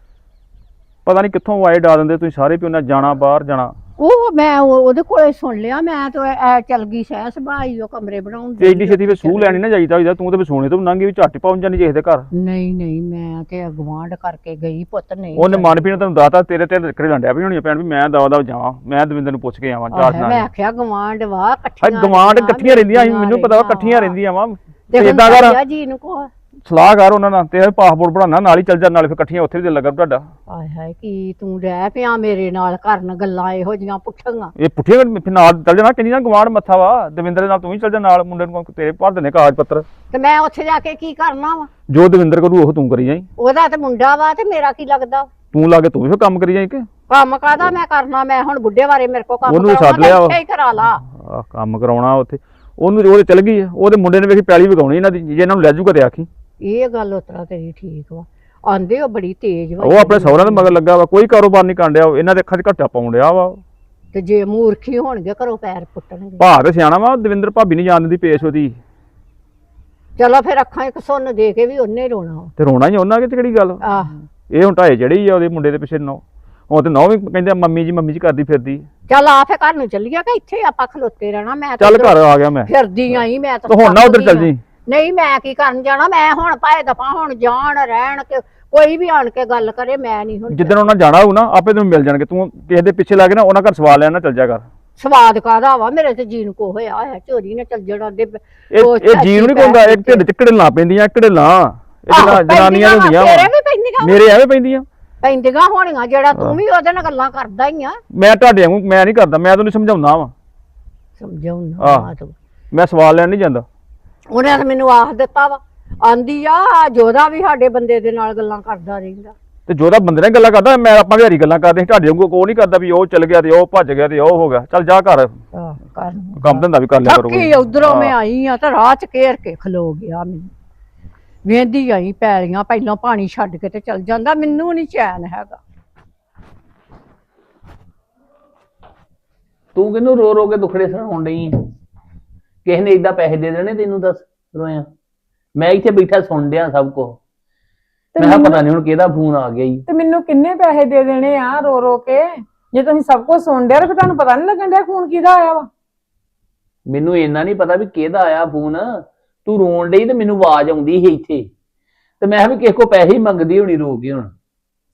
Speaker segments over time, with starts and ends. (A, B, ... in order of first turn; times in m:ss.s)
0:01.0-0:03.7 A
0:04.0-0:09.6 B
0:08.6-0:12.3 A
0:12.3-0:15.8 B
0:15.4-0:20.5 A
0:19.9-0:24.2 B
0:21.8-0:25.6 A
0:24.9-0:26.3 B
0:26.6-0:30.3 A
0:30.5-0:34.5 B
0:34.6-0:39.8 A
0:40.1-0:41.7 B
0:41.9-0:43.3 A
0:43.4-0:45.3 B
0:45.5-0:46.9 A
0:47.1-0:51.0 B
0:49.5-0:50.4 A
0:51.0-0:56.3 A
0:56.6-1:00.7 B
0:59.8-1:03.6 A
1:04.1-1:06.5 B
1:06.4-1:08.8 A
1:10.2-1:12.5 B
1:12.6-1:18.9 A
1:13.8-1:14.1 B
1:19.1-1:30.8 B
1:21.8-1:22.7 A
1:23.7-1:24.6 A
1:30.5-1:34.6 A
1:35.0-1:40.2 B
1:38.7-1:44.8 A
1:42.1-1:44.2 B
1:45.2-1:48.0 B
1:48.1-1:50.3 A
1:51.2-1:52.3 B
1:51.8-1:52.1 A
1:52.7-1:53.6 A
1:54.3-1:59.3 B
1:59.7-2:05.4 A
2:05.5-2:10.5 B
2:06.4-2:08.1 A
2:11.4-2:15.6 B
2:19.7-2:21.6 C
2:22.6-2:24.9 C
2:25.6-2:27.2 C
2:28.2-2:28.6 D
2:28.2-2:29.8 C
2:29.9-2:35.7 D
2:36.9-2:41.5 C
2:42.2-2:44.3 C